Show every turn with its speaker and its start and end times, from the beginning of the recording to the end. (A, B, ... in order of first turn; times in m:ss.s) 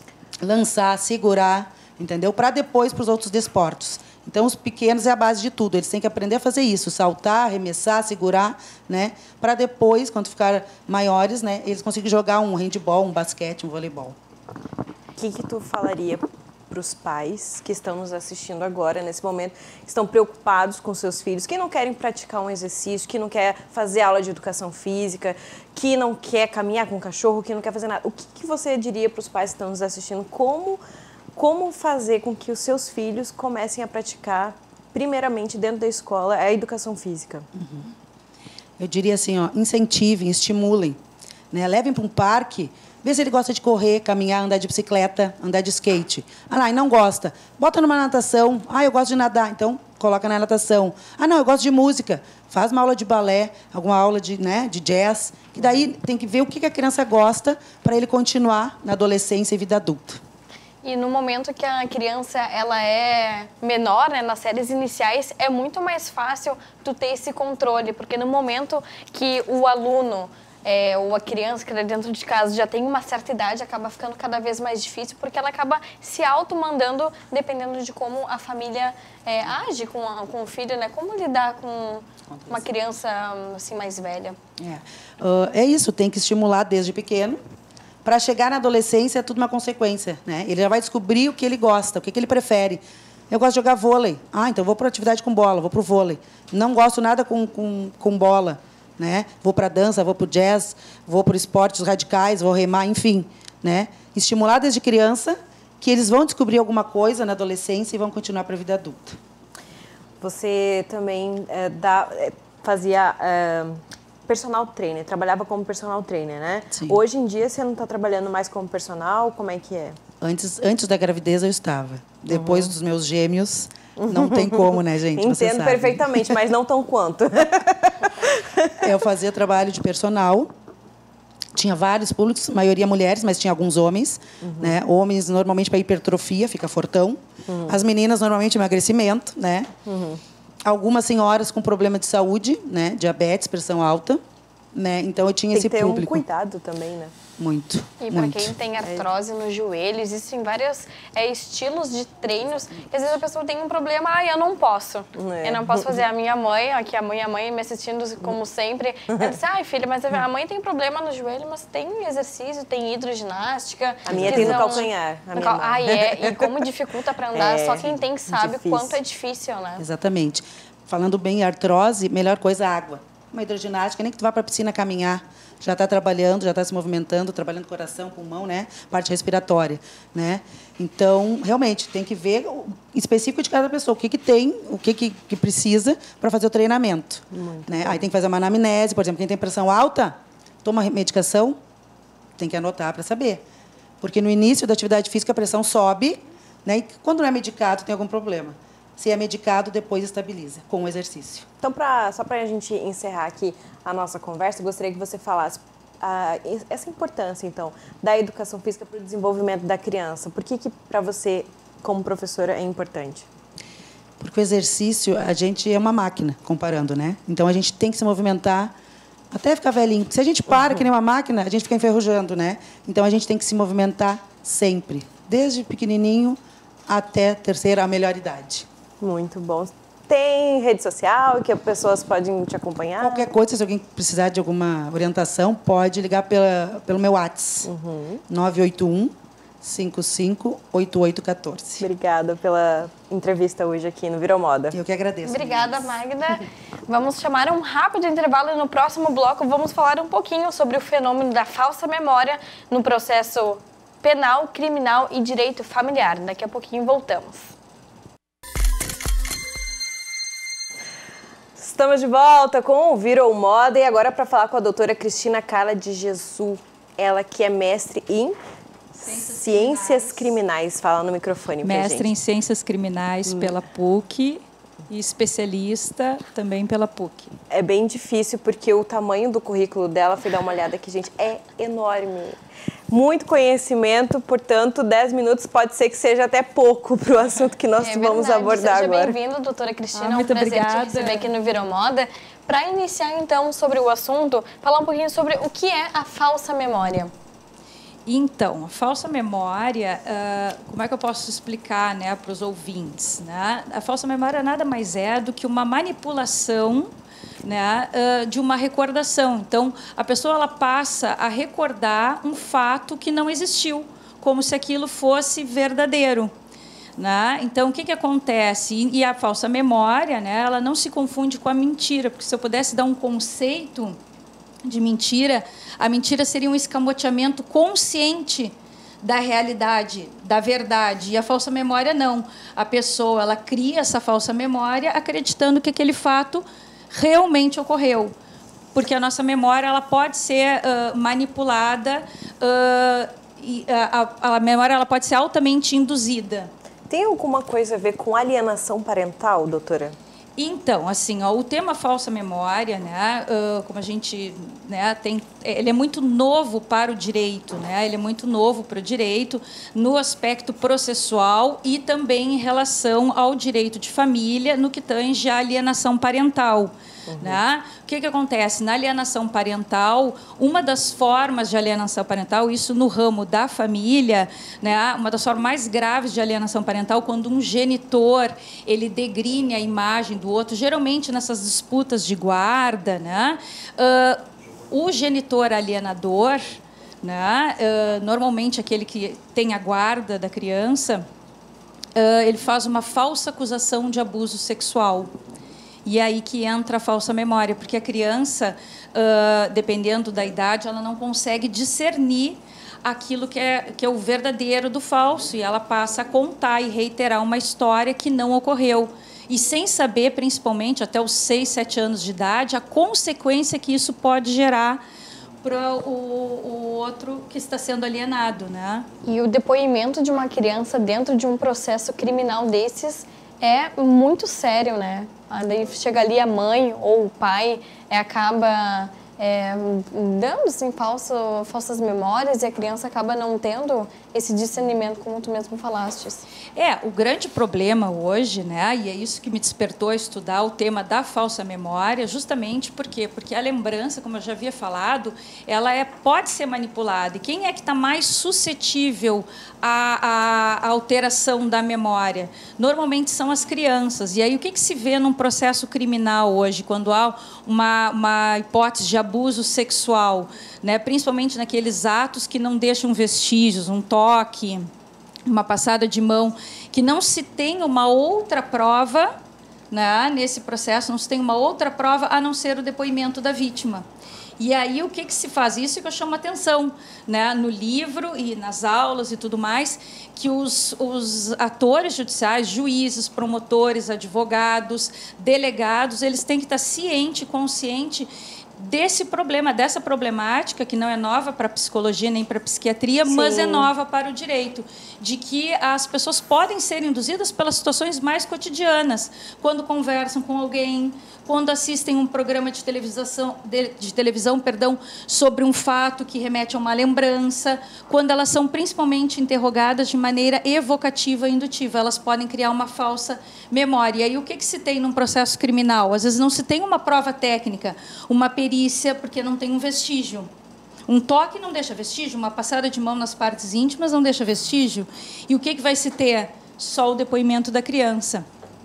0:00.4-0:14.2 A
0:15.2-0:30.8 B
0:31.3-0:37.5 B
0:37.5-0:37.9 A
0:38.8-0:41.0 A
0:41.5-1:00.2 A
1:00.8-1:24.4 C
1:22.3-1:22.6 A
1:24.6-1:27.4 A
1:28.0-1:49.2 A
1:50.2-2:00.0 B
1:56.7-1:57.0 A
2:00.2-2:06.3 A
2:02.3-2:02.7 B
2:04.0-2:08.8 B
2:08.8-2:10.5 A
2:11.5-2:19.7 A
2:14.4-2:14.8 B
2:17.5-2:17.7 B
2:19.8-2:20.2 B
2:20.6-2:24.2 A
2:24.7-2:26.2 A
2:25.5-2:27.1 B
2:27.4-2:28.5 A
2:28.0-2:49.8 C
2:35.2-2:36.0 B
2:44.1-2:46.6 B
2:44.1-2:44.6 A
2:47.3-2:49.0 B
2:49.8-3:11.6 A
3:07.3-3:08.0 B
3:12.4-3:13.4 A
3:14.0-3:21.4 A
3:21.6-3:33.3 B
3:34.2-3:38.7 A
3:39.3-3:48.7 A
3:49.0-3:53.3 B
3:53.0-3:57.7 A
3:57.6-3:58.2 B
3:58.3-4:01.8 A
4:01.8-4:04.8 B
4:04.7-4:06.0 A
4:05.2-4:17.5 C
4:21.6-4:28.4 B
4:28.9-4:32.1 B
4:29.0-4:30.3 D
4:31.6-4:37.3 D
4:33.3-4:33.6 B
4:37.5-4:49.2 B
4:47.8-4:57.1 C
4:49.9-4:51.3 D
4:58.0-5:06.9 D
5:07.4-5:16.3 D
5:17.0-5:24.0 D
5:24.6-5:38.1 D
5:38.7-5:46.5 D
5:46.9-5:50.0 B
5:50.4-6:31.0 D
6:07.1-6:07.4 B
6:31.9-6:35.1 D
6:35.8-6:54.8 D
6:55.4-6:58.9 D
6:59.0-7:16.3 C
7:16.6-7:44.7 D
7:45.2-7:49.1 D
7:49.7-7:53.8 D
7:54.4-8:40.3 D
8:13.0-8:13.7 B
8:40.9-8:48.2 D